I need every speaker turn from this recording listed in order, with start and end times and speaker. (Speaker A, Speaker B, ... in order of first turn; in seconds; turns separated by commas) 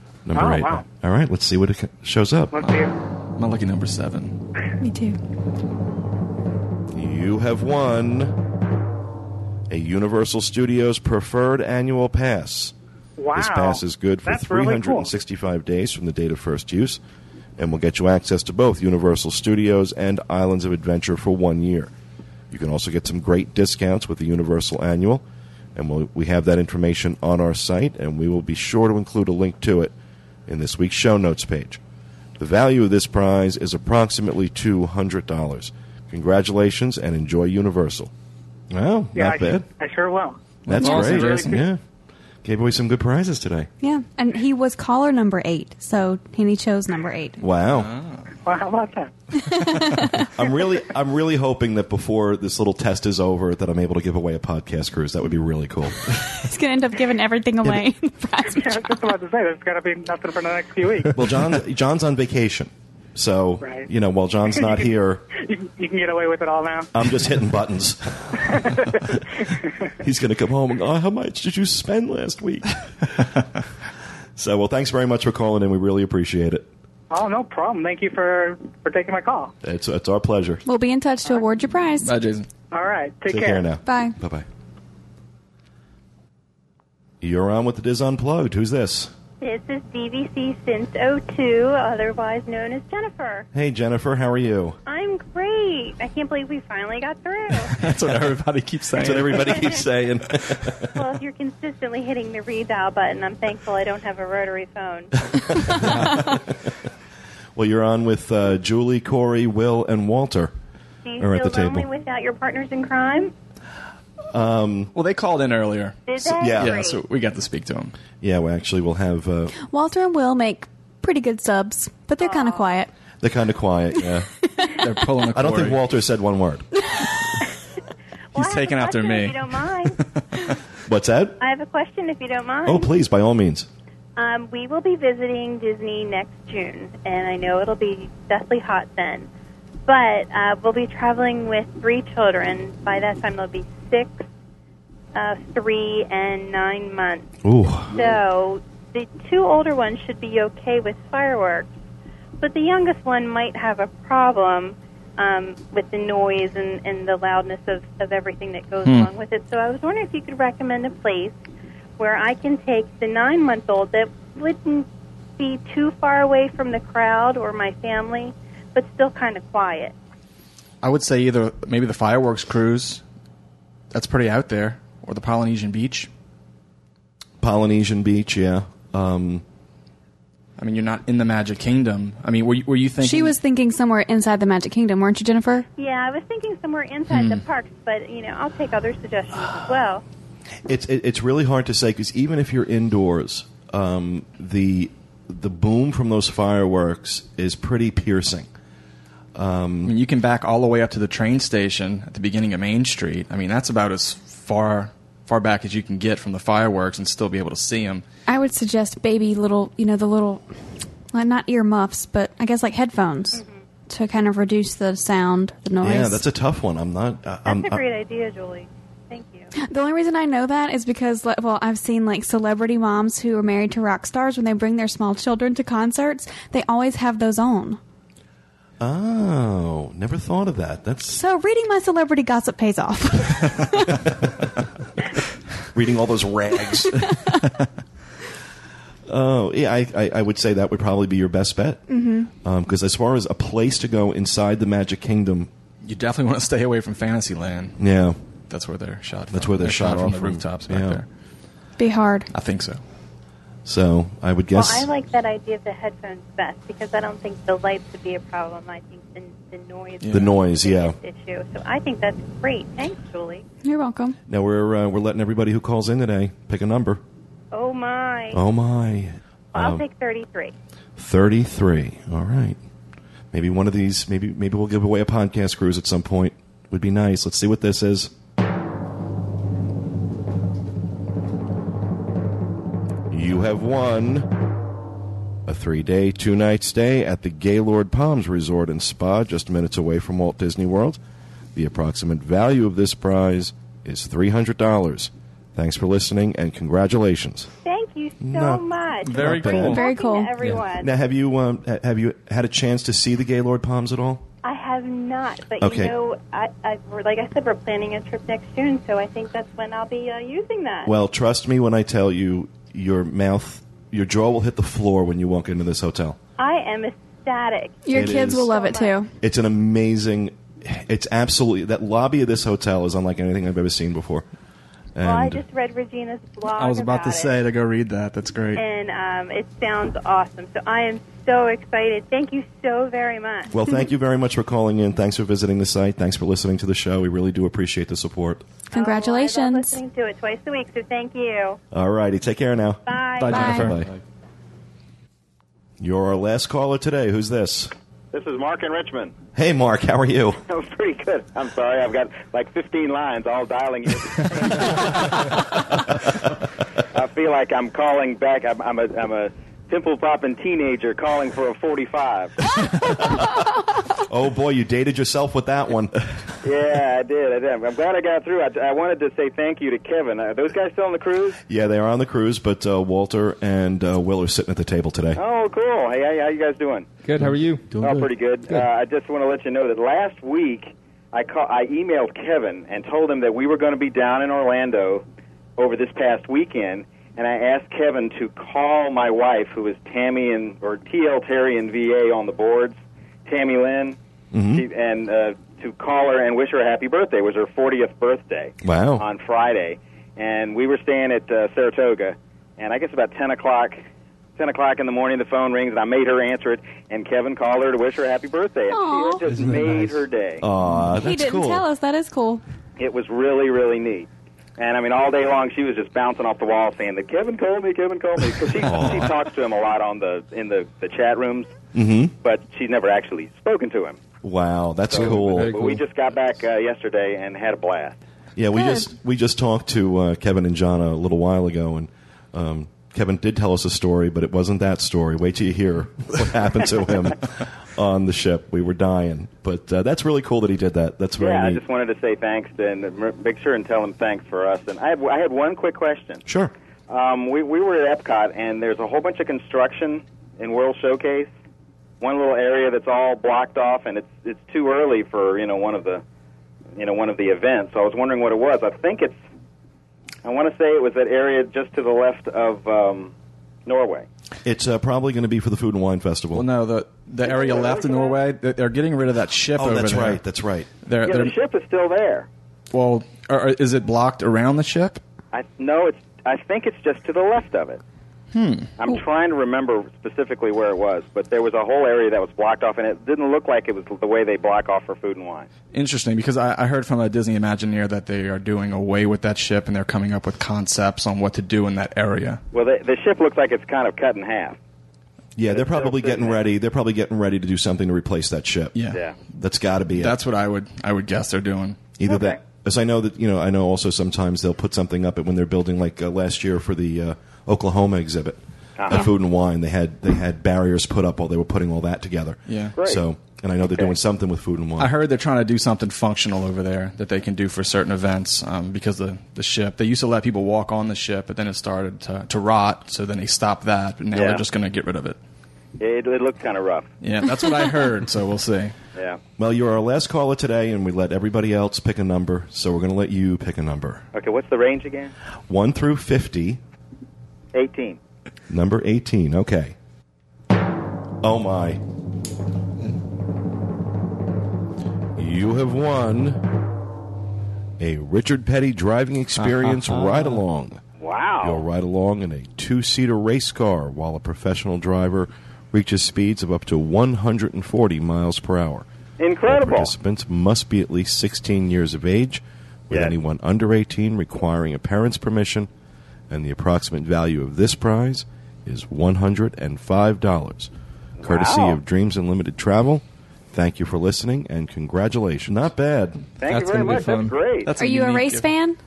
Speaker A: 0.2-2.7, Speaker B: 0.3-0.8, Speaker B: 2.5-2.9, Speaker C: 3.4-4.4, Speaker D: 4.8-5.2, Speaker A: 6.9-8.3, Speaker A: 9.7-12.7, Speaker B: 13.2-15.1, Speaker A: 13.3-17.0, Speaker A: 17.6-21.9, Speaker A: 22.5-25.2, Speaker A: 25.8-29.9, Speaker A: 30.5-31.8, Speaker A: 32.4-38.1, Speaker A: 38.7-39.7, Speaker B: 39.1-40.4, Speaker C: 40.7-41.6, Speaker A: 40.7-41.8, Speaker D: 40.8-41.1, Speaker B: 41.1-41.6, Speaker A: 42.4-43.7, Speaker D: 43.8-47.4, Speaker A: 47.4-47.9, Speaker C: 47.7-48.3, Speaker B: 48.5-49.1, Speaker D: 49.3-50.3, Speaker A: 50.2-56.1, Speaker D: 56.1-59.1, Speaker B: 58.5-61.2, Speaker A: 61.1-65.2, Speaker B: 63.6-63.9, Speaker B: 64.5-67.1, Speaker A: 66.9-69.3, Speaker B: 68.5-69.7, Speaker A: 70.0-73.3, Speaker A: 74.4-76.7, Speaker B: 77.1-79.5, Speaker A: 79.6-80.6, Speaker D: 80.7-82.1, Speaker C: 82.0-82.5, Speaker B: 82.7-83.7, Speaker A: 83.3-84.5, Speaker D: 83.8-84.2, Speaker A: 87.2-89.1, Speaker E: 89.4-93.5, Speaker A: 93.5-94.8, Speaker E: 94.9-97.8, Speaker C: 97.7-99.6, Speaker A: 99.0-100.9, Speaker E: 99.6-99.9, Speaker E: 101.0-105.2, Speaker A: 105.5-106.5, Speaker C: 105.9-106.1, Speaker A: 107.6-110.5, Speaker E: 111.0-113.3, Speaker A: 111.2-111.9, Speaker A: 114.3-114.9, Speaker C: 114.9-116.0, Speaker E: 116.1-117.0, Speaker A: 116.2-116.8, Speaker C: 116.5-118.0, Speaker A: 118.2-119.5, Speaker D: 119.6-122.9, Speaker E: 122.2-122.8, Speaker A: 123.2-124.3, Speaker C: 124.8-125.8, Speaker A: 125.3-126.7, Speaker E: 128.3-130.0, Speaker C: 128.3-130.6, Speaker A: 130.9-131.4, Speaker E: 131.4-132.9, Speaker A: 132.7-133.7, Speaker E: 134.2-139.3, Speaker E: 139.9-144.3, Speaker E: 145.1-151.7, Speaker A: 147.4-147.9, Speaker E: 152.4-161.4, Speaker C: 158.8-159.1, Speaker E: 162.0-164.9, Speaker E: 165.4-169.9, Speaker C: 170.8-173.0, Speaker C: 173.9-176.1, Speaker A: 177.4-179.4, Speaker C: 180.6-183.4, Speaker D: 183.0-185.7, Speaker E: 185.8-190.0, Speaker C: 187.1-187.4, Speaker A: 190.7-198.5, Speaker A: 199.3-199.9, Speaker C: 199.8-208.1, Speaker D: 208.3-210.4, Speaker D: 211.1-216.2, Speaker A: 215.8-217.8, Speaker E: 217.4-219.5, Speaker D: 219.6-227.8, Speaker A: 228.8-231.2, Speaker D: 231.1-234.0, Speaker A: 235.7-237.1, Speaker D: 237.0-237.3, Speaker A: 239.1-245.5, Speaker D: 241.9-242.3, Speaker C: 245.8-247.8, Speaker A: 247.8-248.2, Speaker C: 248.5-251.1, Speaker A: 249.3-251.0, Speaker D: 251.8-252.3, Speaker C: 252.3-252.8, Speaker A: 253.6-254.9, Speaker E: 254.5-263.4, Speaker C: 260.0-260.4, Speaker A: 260.1-261.0, Speaker D: 263.6-264.1, Speaker A: 264.3-267.0, Speaker E: 267.5-268.4, Speaker A: 268.3-269.8, Speaker E: 269.5-270.5, Speaker A: 271.0-272.6, Speaker A: 273.3-278.1, Speaker A: 283.1-284.3, Speaker A: 285.5-291.0, Speaker A: 291.6-297.5, Speaker E: 297.6-300.9, Speaker A: 298.2-298.6, Speaker C: 299.1-299.9, Speaker A: 299.2-299.8, Speaker D: 299.6-300.3, Speaker A: 300.7-304.2, Speaker E: 304.4-310.9, Speaker A: 305.6-305.9, Speaker A: 310.9-316.2, Speaker E: 316.4-319.0, Speaker D: 317.8-319.1, Speaker A: 317.9-318.5, Speaker A: 319.2-324.3, Speaker A: 325.0-325.4, Speaker E: 325.0-327.4, Speaker C: 326.5-328.6, Speaker E: 328.6-333.6, Speaker A: 333.5-338.4, Speaker D: 338.7-339.8, Speaker E: 338.7-341.6, Speaker A: 341.7-343.9, Speaker E: 342.9-343.6, Speaker F: 343.2-344.0, Speaker D: 343.3-343.8, Speaker A: 345.8-347.7, Speaker G: 348.1-349.1, Speaker A: 349.4-350.4, Speaker G: 350.5-355.0, Speaker G: 356.9-362.4, Speaker A: 362.9-363.3, Speaker A: 364.1-366.3, Speaker G: 366.4-371.4, Speaker A: 371.5-375.2, Speaker G: 375.1-376.9, Speaker F: 377.0-378.6, Speaker G: 377.7-385.0, Speaker G: 385.6-394.0, Speaker A: 394.3-394.6, Speaker G: 394.5-403.8, Speaker A: 398.6-399.0, Speaker G: 404.4-410.4, Speaker D: 408.7-409.2, Speaker F: 409.3-410.0, Speaker A: 410.4-411.6, Speaker D: 410.8-412.4, Speaker G: 412.8-421.6, Speaker A: 418.6-419.1, Speaker A: 421.7-422.1, Speaker G: 422.1-424.0, Speaker A: 424.2-425.6, Speaker G: 424.9-428.0, Speaker F: 424.9-425.8, Speaker A: 428.4-441.6, Speaker D: 428.5-428.9, Speaker G: 441.2-446.2, Speaker A: 446.3-446.5, Speaker G: 446.9-451.3, Speaker G: 452.0-456.0, Speaker G: 456.8-459.2, Speaker G: 460.2-463.1, Speaker G: 463.6-464.1, Speaker A: 464.4-466.4, Speaker C: 466.3-470.2, Speaker G: 467.2-468.1, Speaker A: 469.6-470.7, Speaker C: 470.9-471.4, Speaker G: 471.0-472.3, Speaker C: 472.7-475.0, Speaker G: 475.3-477.8, Speaker C: 478.3-478.7, Speaker G: 478.8-485.5, Speaker C: 485.7-492.4, Speaker G: 492.5-494.6, Speaker A: 495.4-498.8, Speaker G: 495.4-496.4, Speaker C: 498.7-499.0, Speaker G: 498.9-499.1, Speaker A: 499.4-500.2, Speaker C: 499.9-501.8, Speaker A: 502.0-514.9, Speaker G: 502.1-502.4, Speaker G: 508.8-509.1, Speaker C: 512.5-512.8, Speaker G: 512.8-513.0, Speaker G: 513.6-513.9, Speaker C: 514.8-525.2, Speaker G: 524.1-524.5, Speaker G: 525.8-526.9, Speaker C: 527.0-528.8, Speaker A: 529.4-534.0, Speaker G: 534.1-535.1, Speaker A: 535.5-536.6, Speaker G: 537.5-538.0, Speaker A: 538.5-539.8, Speaker A: 541.2-541.8, Speaker A: 545.2-546.4, Speaker A: 547.8-550.8, Speaker F: 549.4-550.4, Speaker G: 551.0-551.6, Speaker A: 551.4-558.9, Speaker G: 559.2-559.9, Speaker A: 559.5-565.7, Speaker G: 562.9-563.1, Speaker A: 566.3-570.7, Speaker G: 571.2-571.8, Speaker A: 571.2-576.2, Speaker G: 576.4-577.7, Speaker C: 576.4-578.5, Speaker D: 577.8-578.8